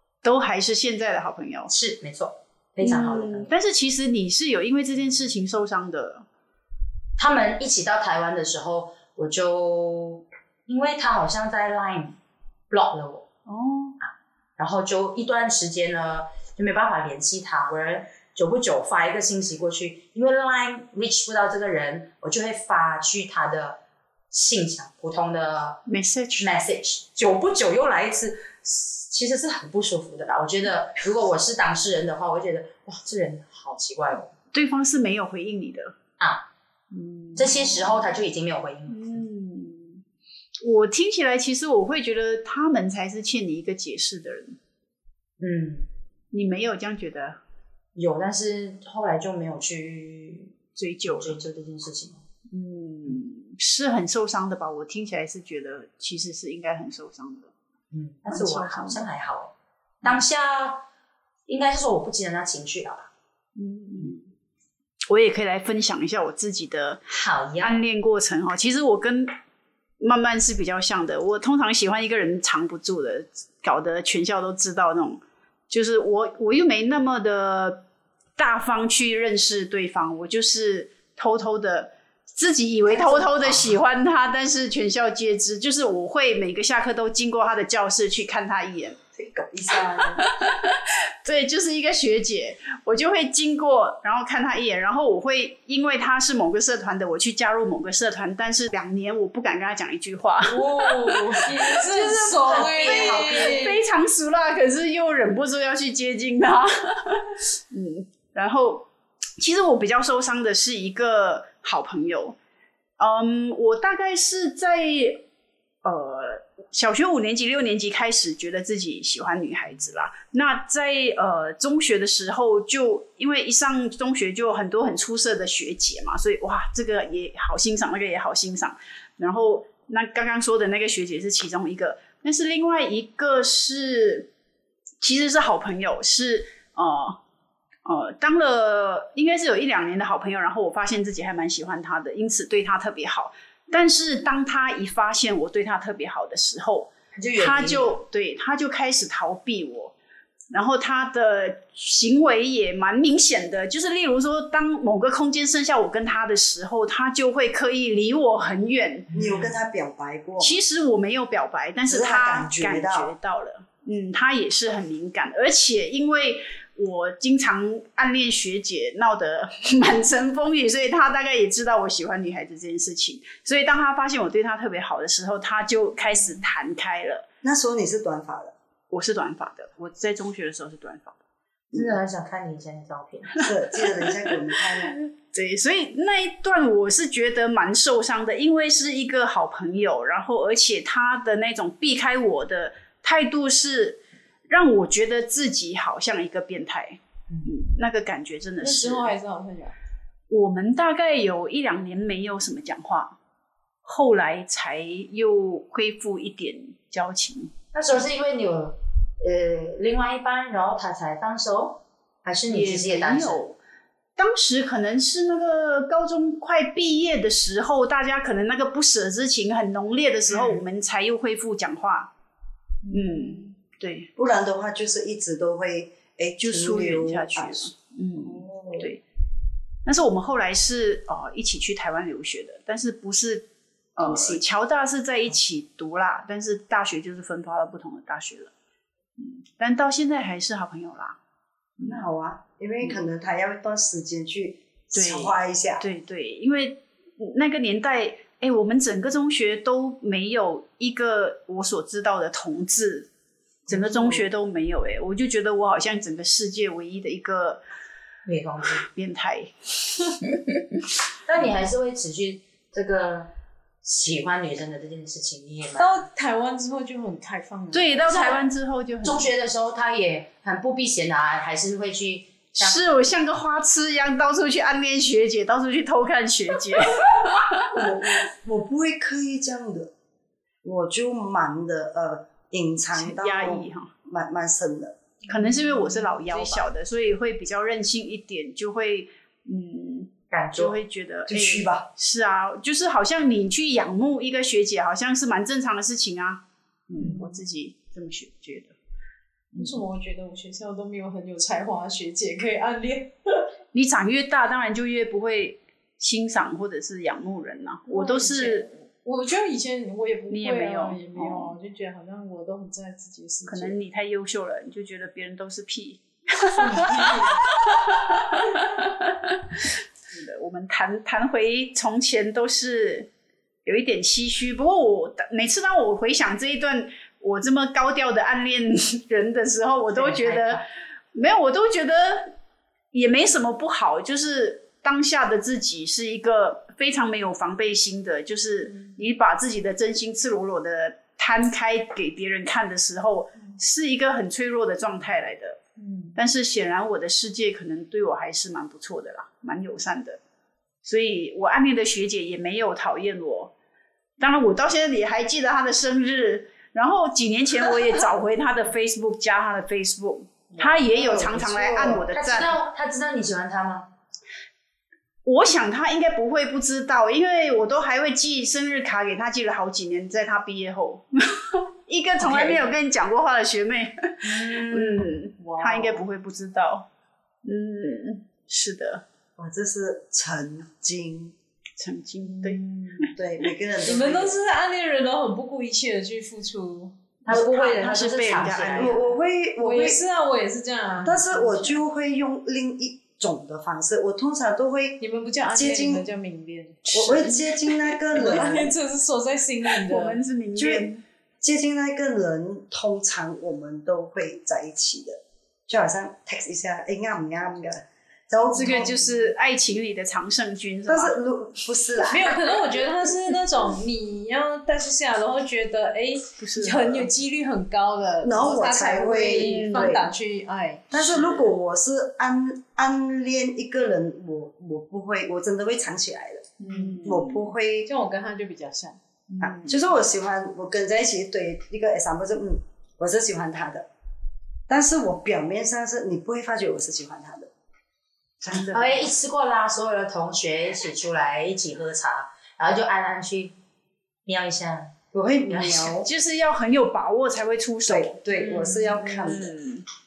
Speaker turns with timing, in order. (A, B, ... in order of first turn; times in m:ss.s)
0:00.2-0:01.7 A
0:01.7-0:03.5 B
0:02.8-0:06.2 A
0:07.2-0:12.2 B
0:12.7-0:13.3 B
0:13.5-0:14.0 A
0:14.0-0:23.8 B
0:24.3-0:25.8 B
0:25.9-0:26.5 A
0:26.4-0:34.3 B
0:34.5-0:36.0 A
0:36.2-0:36.5 B
0:36.9-0:38.2 A
0:37.4-0:39.2 B
0:38.9-0:40.0 A
0:40.6-0:44.6 A
0:45.4-0:45.9 B
0:46.3-0:47.4 A
0:48.0-0:52.2 B
0:50.8-0:51.4 A
0:52.5-0:57.5 A
0:57.9-1:00.9 B
0:58.3-0:59.0 A
1:01.5-1:03.1 B
1:03.6-1:04.3 A
1:05.1-1:07.0 A
1:07.1-1:07.8 B
1:07.6-1:09.3 A
1:10.0-1:17.8 A
1:18.4-1:29.0 A
1:22.9-1:23.8 C
1:29.2-1:30.3 C
1:30.0-1:41.6 A
1:40.5-1:43.8 D
1:41.8-1:43.7 B
1:42.5-1:52.4 A
1:53.0-1:55.3 A
1:55.8-2:14.3 A
2:15.0-2:17.2 A
2:17.8-2:29.9 A
2:27.2-2:28.0 B
2:30.5-2:39.1 A
2:39.1-2:39.4 B
2:39.1-2:40.6 C
2:40.4-2:57.2 A
2:41.9-2:43.2 C
2:57.4-2:58.5 C
2:58.9-3:01.2 A
3:01.7-3:03.5 B
3:03.4-3:05.0 C
3:04.0-3:19.1 A
3:18.6-3:19.8 D
3:20.3-3:23.2 A
3:23.8-3:27.5 A
3:27.7-3:33.4 B
3:32.5-3:33.6 A
3:34.2-3:42.1 A
3:42.9-3:44.1 A
3:44.2-3:48.9 C
3:46.4-3:49.0 A
3:49.8-3:58.5 A
3:54.0-3:54.4 C
3:59.2-4:01.2 A
4:01.8-4:02.1 A
4:01.8-4:05.9 C
4:04.9-4:13.1 A
4:13.7-4:14.3 C
4:13.7-4:17.6 A
4:18.3-4:18.9 B
4:18.8-4:20.2 A
4:21.2-4:23.3 B
4:23.8-4:26.1 B
4:25.8-4:28.3 D
4:27.7-4:29.3 A
4:28.1-4:28.4 B
4:29.0-4:33.0 B
4:32.6-4:38.1 A
4:37.7-4:39.9 C
4:40.6-4:45.0 C
4:43.0-4:43.9 A
4:45.3-4:58.8 A
4:45.3-4:46.2 D
4:46.3-4:46.6 C
4:50.3-4:50.8 B
4:51.3-4:51.9 C
4:57.0-4:57.4 D
4:59.6-5:03.5 D
5:03.7-5:08.7 A
5:07.9-5:13.8 D
5:10.3-5:11.6 A
5:13.5-5:23.1 A
5:16.6-5:17.4 C
5:23.6-5:32.4 A
5:29.9-5:30.6 B
5:32.9-5:45.6 A
5:45.8-5:46.2 D
5:46.2-5:50.2 A
5:50.8-5:53.5 A
5:54.2-6:02.6 A
6:00.6-6:02.1 C
6:02.1-6:03.9 B
6:05.2-6:16.9 A
6:12.2-6:12.6 B
6:14.2-6:15.1 B
6:15.4-6:16.0 D
6:17.4-6:19.0 A
6:19.4-6:21.4 C
6:21.8-6:23.1 A
6:22.2-6:23.2 D
6:23.2-6:24.4 C
6:23.8-6:27.0 D
6:27.2-6:29.0 B
6:27.3-6:29.0 A
6:28.7-6:30.0 C
6:29.6-6:31.8 D
6:31.0-6:36.1 C
6:35.0-6:37.4 D
6:36.9-6:38.8 C
6:38.1-6:40.2 D
6:39.8-6:41.0 A
6:40.6-6:40.9 C
6:41.4-6:49.0 C
6:48.6-6:49.1 D
6:48.6-6:51.2 A
6:50.9-6:52.4 C
6:52.1-7:01.1 D
6:56.4-6:57.1 A
6:58.2-7:00.1 C
6:59.2-7:00.0 A
7:00.9-7:07.9 C
7:06.6-7:07.1 D
7:06.7-7:07.5 A
7:07.9-7:09.0 D
7:09.3-7:09.8 A
7:09.4-7:13.9 C
7:14.7-7:17.5 C
7:18.4-7:19.0 C
7:18.7-7:23.6 B
7:24.3-7:25.9 B
7:25.1-7:26.1 C
7:26.0-7:29.8 A
7:27.9-7:29.6 C